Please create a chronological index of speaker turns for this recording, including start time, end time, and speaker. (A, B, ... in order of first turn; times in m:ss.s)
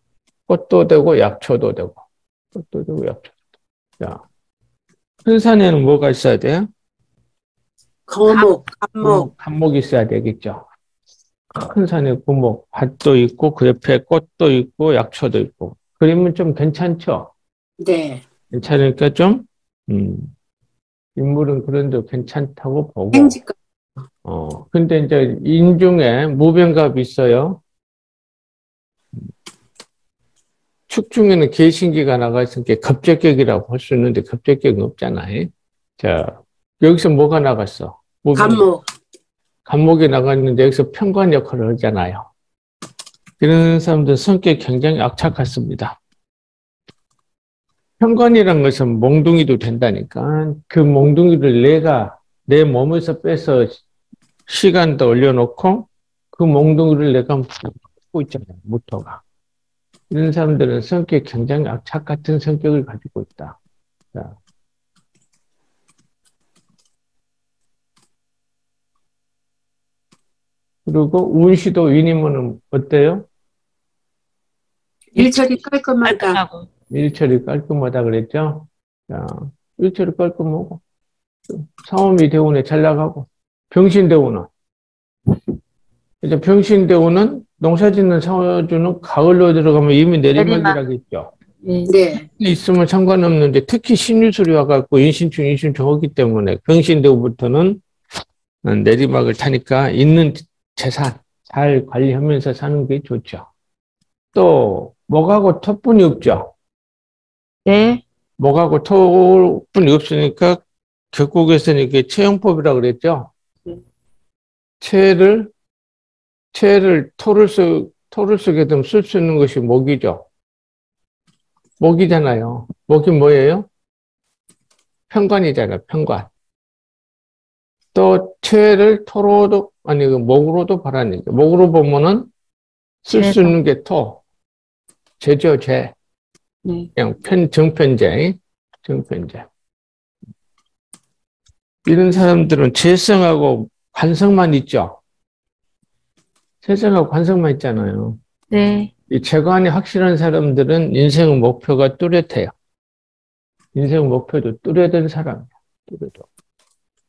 0:00.5-0:02.0 A
0:02.6-0:03.3 A
0:05.2-0:06.7 A
0:08.1-0:09.3 B
0:09.0-0:10.6 A
0:11.6-0:17.3 A
0:17.8-0:18.2 B
0:18.5-0:20.3 A
0:21.2-0:23.4 A
0:23.1-0:23.6 B
0:24.2-0:27.6 A
0:30.9-0:38.6 A
0:38.4-0:38.9 B
0:39.7-0:42.3 A
0:43.4-0:46.0 A
0:48.0-0:53.8 A
0:54.5-0:59.2 A
1:00.1-1:03.6 A
1:10.9-1:13.2 A
1:15.1-1:16.4 B
1:15.2-1:15.4 C
1:16.0-1:16.7 C
1:16.9-1:20.8 A
1:21.5-1:24.5 A
1:26.2-1:31.3 A
1:30.4-1:30.8 C
1:31.6-1:31.9 C
1:31.9-1:32.2 B
1:32.4-1:37.8 A
1:38.6-1:43.4 A
1:44.4-1:46.5 A
1:47.7-1:48.0 C
1:48.4-1:50.6 A
1:51.1-1:53.3 A
1:54.8-1:55.5 A
1:56.5-2:00.2 A
2:01.8-2:03.7 A
2:05.1-2:06.3 A
2:07.9-2:12.3 A
2:13.0-2:14.2 A
2:15.2-2:15.9 A
2:17.0-2:19.4 A
2:21.9-2:25.0 A
2:26.6-2:28.2 A
2:28.5-2:28.9 C
2:29.1-2:32.5 A
2:33.8-2:36.2 A